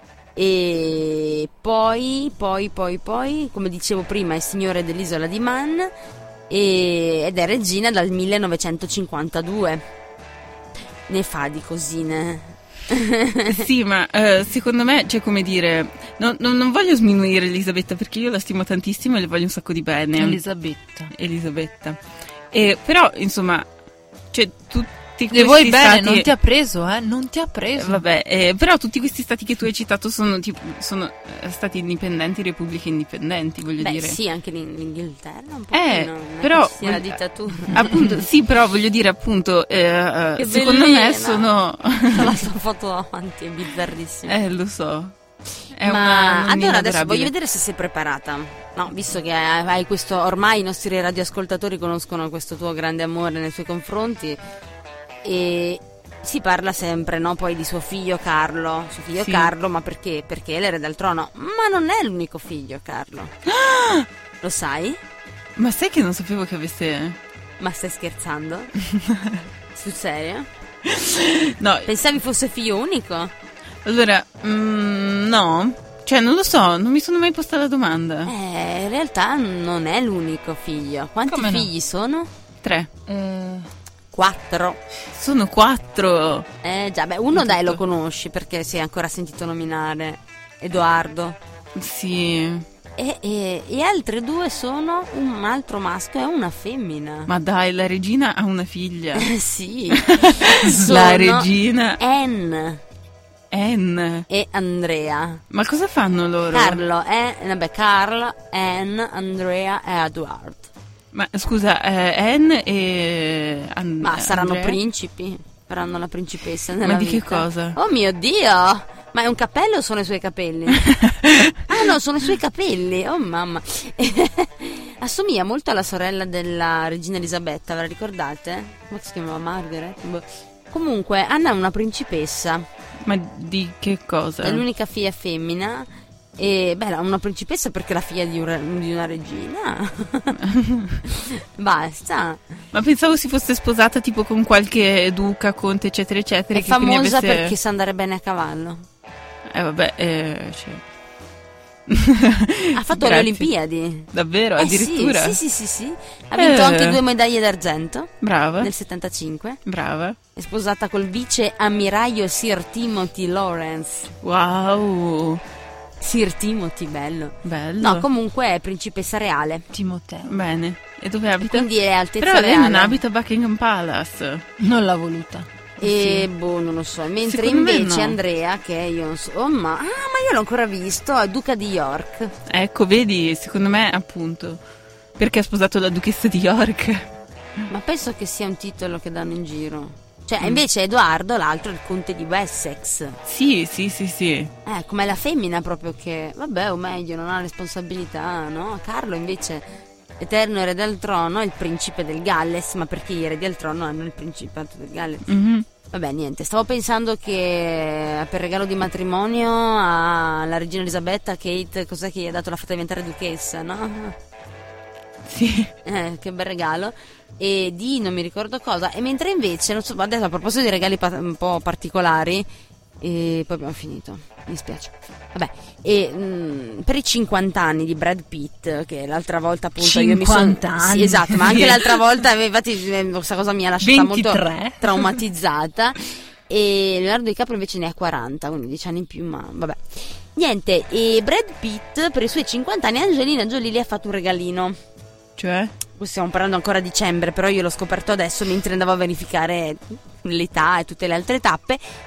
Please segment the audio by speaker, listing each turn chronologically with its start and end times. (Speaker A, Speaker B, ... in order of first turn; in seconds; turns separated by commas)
Speaker A: 0.3-5.9, Speaker A: 6.5-9.8, Speaker A: 11.1-13.6, Speaker B: 13.5-20.4, Speaker C: 20.2-21.1, Speaker B: 21.1-22.0, Speaker B: 22.5-23.7, Speaker B: 24.3-26.3, Speaker C: 25.3-28.0, Speaker B: 27.8-34.2, Speaker A: 33.8-38.1, Speaker B: 35.7-42.4, Speaker A: 40.4-41.5, Speaker A: 42.1-44.4, Speaker B: 44.3-45.1, Speaker B: 45.7-47.3, Speaker A: 45.8-54.4, Speaker A: 55.2-63.3, Speaker B: 59.2-59.5, Speaker B: 63.5-64.1, Speaker A: 64.4-65.0, Speaker B: 65.5-67.2, Speaker A: 67.6-68.7, Speaker B: 68.9-69.4, Speaker A: 69.7-70.5, Speaker B: 70.8-71.9, Speaker A: 71.8-73.3, Speaker B: 73.8-78.3, Speaker A: 78.2-82.3, Speaker C: 81.3-81.7, Speaker B: 82.6-82.9, Speaker C: 83.1-83.7, Speaker A: 84.1-84.8, Speaker B: 85.1-86.5, Speaker A: 86.6-91.4, Speaker B: 87.3-87.8, Speaker B: 91.7-92.7, Speaker A: 93.0-97.3, Speaker B: 97.3-99.3, Speaker A: 99.2-102.8, Speaker B: 99.9-102.0, Speaker B: 103.5-104.3, Speaker A: 104.3-105.4, Speaker B: 105.5-106.8, Speaker A: 106.5-110.7, Speaker B: 111.1-114.8, Speaker A: 114.0-120.9, Speaker B: 116.8-117.8, Speaker B: 121.0-121.5, Speaker A: 121.6-132.7, Speaker B: 133.0-134.6, Speaker A: 134.4-140.4, Speaker B: 140.4-141.0, Speaker A: 141.1-142.4, Speaker B: 142.7-147.5, Speaker A: 146.5-148.8, Speaker B: 149.5-150.8, Speaker B: 151.9-153.5, Speaker A: 152.7-154.1, Speaker B: 154.1-155.4, Speaker A: 154.6-159.6, Speaker B: 156.4-157.0, Speaker B: 158.2-158.7, Speaker B: 159.7-160.2, Speaker A: 160.3-164.1, Speaker B: 164.2-165.4, Speaker A: 166.0-169.7, Speaker B: 167.4-168.1, Speaker C: 169.7-170.4, Speaker B: 170.3-174.4, Speaker A: 171.4-173.0, Speaker C: 174.6-176.2, Speaker A: 175.8-182.3, Speaker B: 177.3-178.2, Speaker B: 182.5-184.6, Speaker B: 185.2-187.1, Speaker A: 187.7-193.2, Speaker B: 193.2-194.5, Speaker A: 194.6-199.7, Speaker A: 200.2-205.2, Speaker B: 205.3-205.7, Speaker A: 205.9-214.2, Speaker B: 215.3-215.7, Speaker A: 215.8-222.5, Speaker A: 223.0-244.8, Speaker C: 229.8-231.8, Speaker B: 231.5-231.8, Speaker C: 233.8-235.0, Speaker B: 245.4-245.7, Speaker A: 246.0-251.8